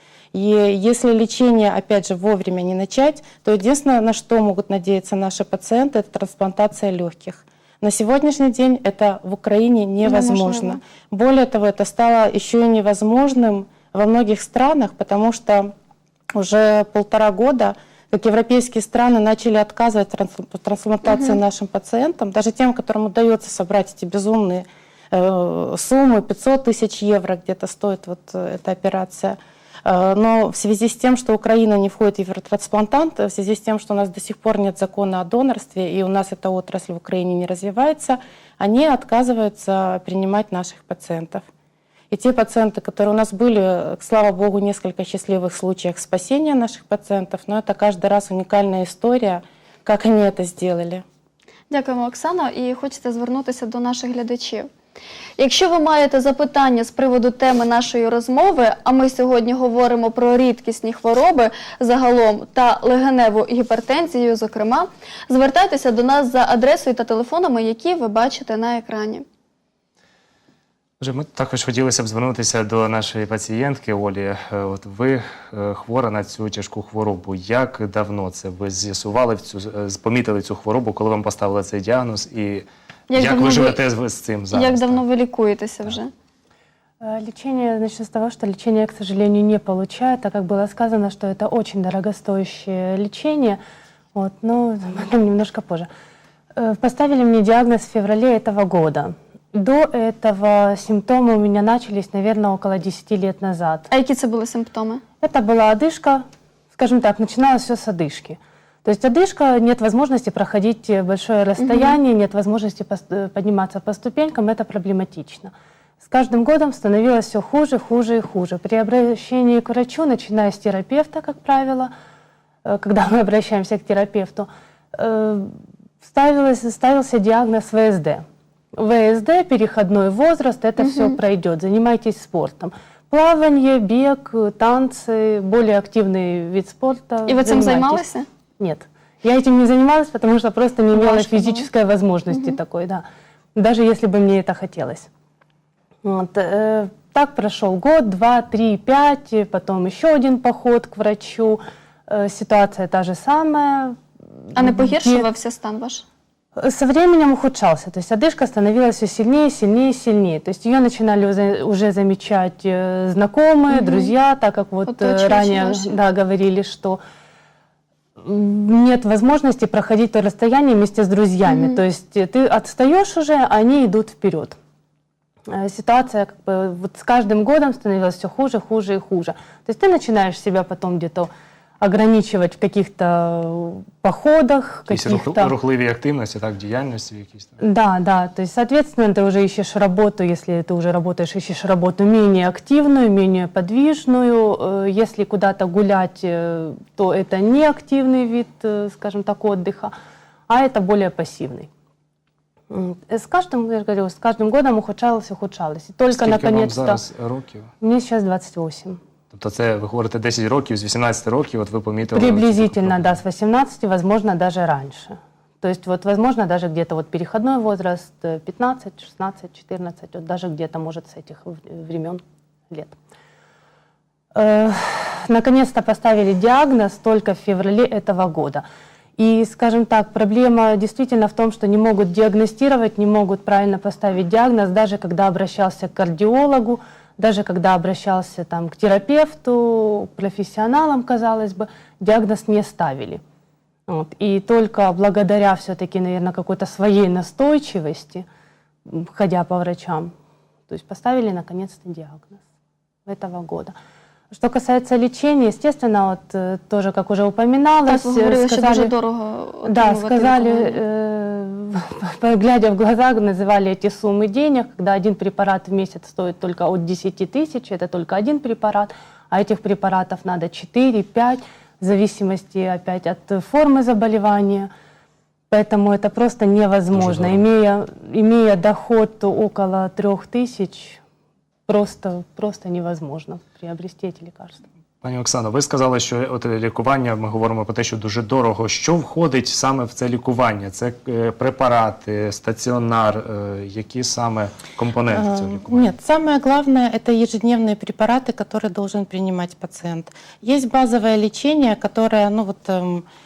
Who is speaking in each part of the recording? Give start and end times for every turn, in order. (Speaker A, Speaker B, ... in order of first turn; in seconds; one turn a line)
Speaker A: 0.3-15.7
Speaker B: 10.0-10.8
Speaker A: 16.3-41.5
Speaker B: 21.1-21.4
Speaker A: 42.1-51.0
Speaker B: 51.7-54.7
Speaker B: 55.4-69.2
Speaker C: 71.0-85.0
Speaker B: 83.1-83.8
Speaker B: 84.5-86.1
Speaker D: 87.0-93.6
Speaker D: 94.2-95.9
Speaker D: 96.6-103.9
Speaker B: 103.9-105.0
Speaker D: 105.2-106.2
Speaker D: 106.8-121.9
Speaker B: 111.6-112.0
Speaker D: 122.7-138.0
Speaker B: 130.8-131.2
Speaker B: 137.3-138.3
Speaker D: 138.6-143.0
Speaker B: 140.9-141.7
Speaker B: 142.3-142.6
Speaker D: 143.6-145.1
Speaker D: 146.0-155.3
Speaker B: 154.6-156.1
Speaker D: 156.6-167.0
Speaker B: 163.7-164.1
Speaker B: 164.9-166.0
Speaker D: 168.2-174.6
Speaker B: 171.5-171.8
Speaker D: 175.5-185.5
Speaker C: 184.9-187.6
Speaker D: 187.6-199.9
Speaker D: 200.5-201.7
Speaker D: 202.7-207.0
Speaker C: 206.1-207.7
Speaker D: 207.8-209.0
Speaker C: 209.3-213.2
Speaker D: 212.1-223.0
Speaker D: 224.3-228.6
Speaker D: 229.2-243.2
Speaker D: 243.9-248.3
Speaker D: 248.9-250.1
Speaker D: 250.7-252.4
Speaker D: 253.1-253.7
Speaker D: 254.3-258.9
Speaker B: 257.9-260.8
Speaker D: 259.6-274.7
Speaker D: 275.5-281.0
Speaker C: 276.9-277.4
Speaker D: 281.7-284.6
Speaker C: 285.0-295.9
Speaker A: 295.1-303.1